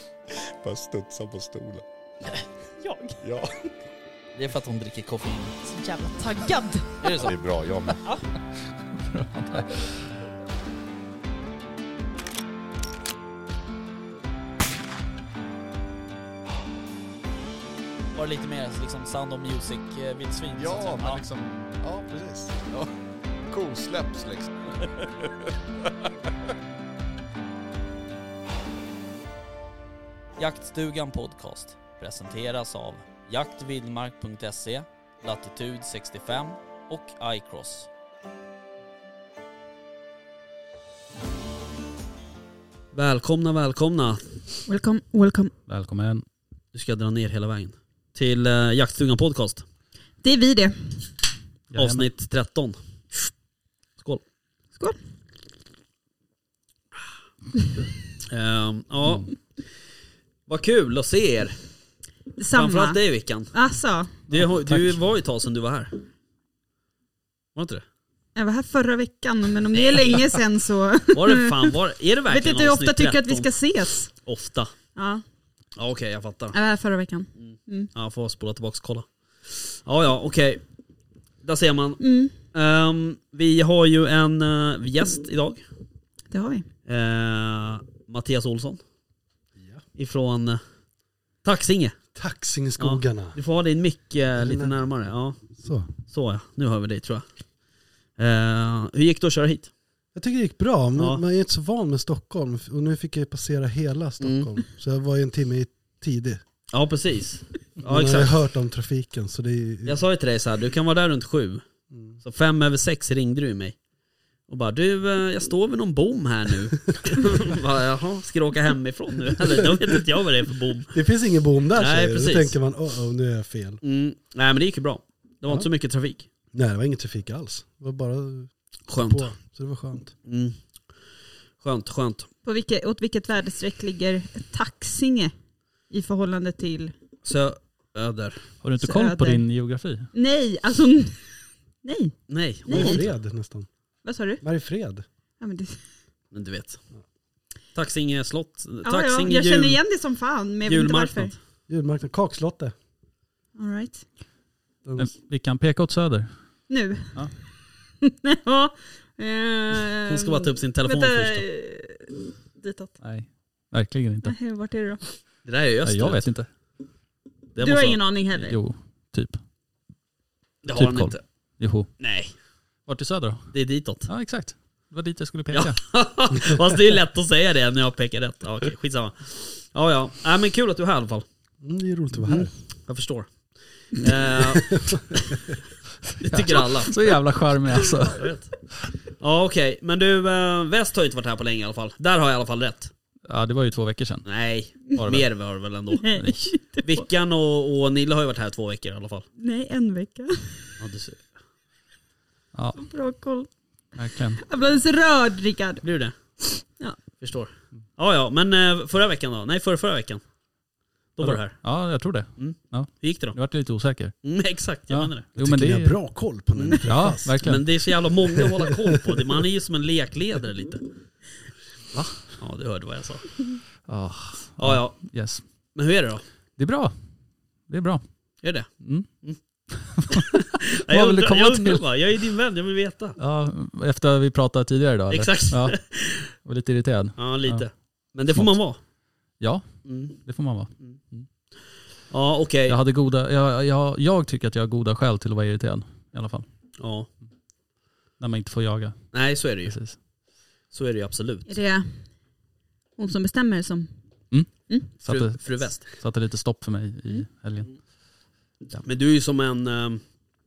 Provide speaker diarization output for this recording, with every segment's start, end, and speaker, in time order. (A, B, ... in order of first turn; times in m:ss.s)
0:00.4-0:01.8 A
0:02.8-0:03.2 B
0:03.2-0:03.5 A
0:04.3-0:05.6 C
0:05.6-0:07.2 B
0:07.0-0:07.3 C
0:07.2-0:08.0 A
0:09.0-0:10.0 D
0:18.1-0:21.2 C
0:20.6-0:22.9 A
0:23.5-0:25.5 A
0:30.4-0:37.9 C
0:42.9-0:44.4 C
0:44.7-0:45.5 B
0:45.7-0:46.2 D
0:46.7-0:49.6 C
0:50.2-0:51.0 B
0:51.7-0:52.1 D
0:51.7-0:52.8 C
0:58.3-0:59.4 C
0:59.0-0:59.3 D
1:00.5-1:01.5 C
1:02.4-1:04.1 B
1:02.5-1:03.5 C
1:04.3-1:05.0 D
1:04.3-1:06.0 C
1:07.5-1:07.8 C
1:08.3-1:11.7 B
1:09.9-1:10.3 C
1:11.1-1:13.5 C
1:12.3-1:14.1 B
1:14.1-1:14.7 C
1:15.0-1:15.2 B
1:15.8-1:16.5 C
1:16.5-1:17.9 B
1:17.4-1:20.6 C
1:21.4-1:25.6 C
1:22.0-1:22.3 B
1:26.3-1:26.7 B
1:26.8-1:28.8 C
1:30.0-1:30.6 C
1:31.4-1:32.0 C
1:32.1-1:33.4 E
1:32.8-1:35.4 C
1:34.4-1:34.7 E
1:35.6-1:35.9 E
1:36.1-1:37.2 C
1:38.2-1:39.7 C
1:40.1-1:46.4 E
1:41.0-1:41.2 C
1:44.2-1:44.5 C
1:46.7-1:48.3 C
1:47.8-1:50.0 E
1:49.8-1:51.6 C
1:52.2-1:53.7 C
1:54.5-2:00.9 C
1:59.5-1:59.9 E
2:00.9-2:03.8 E
2:01.7-2:02.5 C
2:03.8-2:06.3 C
2:06.5-2:10.1 E
2:08.9-2:09.3 C
2:10.2-2:10.5 C
2:11.6-2:12.3 C
2:12.4-2:15.3 B
2:15.9-2:16.9 B
2:17.2-2:18.4 C
2:18.6-2:20.1 D
2:18.8-2:19.4 B
2:20.1-2:21.3 B
2:21.8-2:23.0 B
2:22.3-2:23.1 C
2:22.7-2:23.7 E
2:24.0-2:24.4 B
2:24.4-2:25.0 E
2:25.4-2:25.8 B
2:26.3-2:26.8 C
2:27.7-2:29.8 C
2:28.8-2:31.4 B
2:30.6-2:31.3 C
2:31.7-2:32.7 E
2:33.6-2:34.0 B
2:34.8-2:35.1 E
2:35.0-2:37.3 D
2:36.7-2:37.3 B
2:38.0-2:43.0 B
2:40.1-2:41.4 C
2:43.0-2:44.3 D
2:44.2-2:45.0 B
2:45.4-2:46.2 C
2:45.8-2:46.5 D
2:47.5-2:48.0 C
2:47.6-2:48.6 B
2:48.4-2:49.4 D
2:50.6-2:51.2 C
2:50.7-2:51.9 D
2:52.0-2:52.3 C
2:52.8-2:53.5 D
2:53.5-2:54.1 C
2:54.1-2:55.8 D
2:55.5-3:01.2 C
3:01.6-3:02.5 E
3:02.2-3:05.5 C
3:04.4-3:05.5 E
3:06.2-3:07.2 C
3:06.2-3:08.3 D
3:07.7-3:08.5 C
3:09.1-3:12.9 C
3:13.3-3:14.3 D
3:14.2-3:16.2 C
3:14.9-3:15.2 D
3:16.0-3:17.0 B
3:16.8-3:19.2 C
3:19.4-3:20.8 B
3:20.8-3:21.2 C
3:22.5-3:22.8 D
3:22.8-3:23.5 B
3:23.9-3:24.4 D
3:24.3-3:25.8 B
3:25.8-3:26.1 C
3:27.2-3:30.2 C
3:31.2-3:31.6 C
3:31.2-3:34.1 D
3:32.4-3:33.4 C
3:34.2-3:35.3 C
3:34.9-3:36.0 D
3:35.4-3:37.4 E
3:36.5-3:40.8 C
3:36.8-3:37.6 D
3:41.9-3:42.2 D
3:42.4-3:43.4 C
3:43.8-3:45.4 D
3:44.6-3:45.1 C
3:45.7-3:46.2 C
3:46.6-3:46.9 D
3:47.7-3:48.0 D
3:48.4-3:48.7 C
3:48.8-3:49.1 D
3:49.7-3:51.8 D
3:50.1-3:53.2 C
3:53.2-3:55.8 D
3:55.1-3:56.3 C
3:56.3-3:57.7 D
3:57.2-3:58.8 C
3:59.4-4:01.3 D
3:59.8-4:00.2 C
4:02.1-4:02.8 C
4:02.7-4:06.4 D
4:06.8-4:07.1 C
4:08.2-4:10.0 D
4:09.1-4:09.8 C
4:10.7-4:11.5 C
4:11.5-4:12.1 B
4:13.0-4:13.9 B
4:14.3-4:17.8 D
4:14.5-4:14.9 B
4:15.0-4:15.9 C
4:18.8-4:20.0 C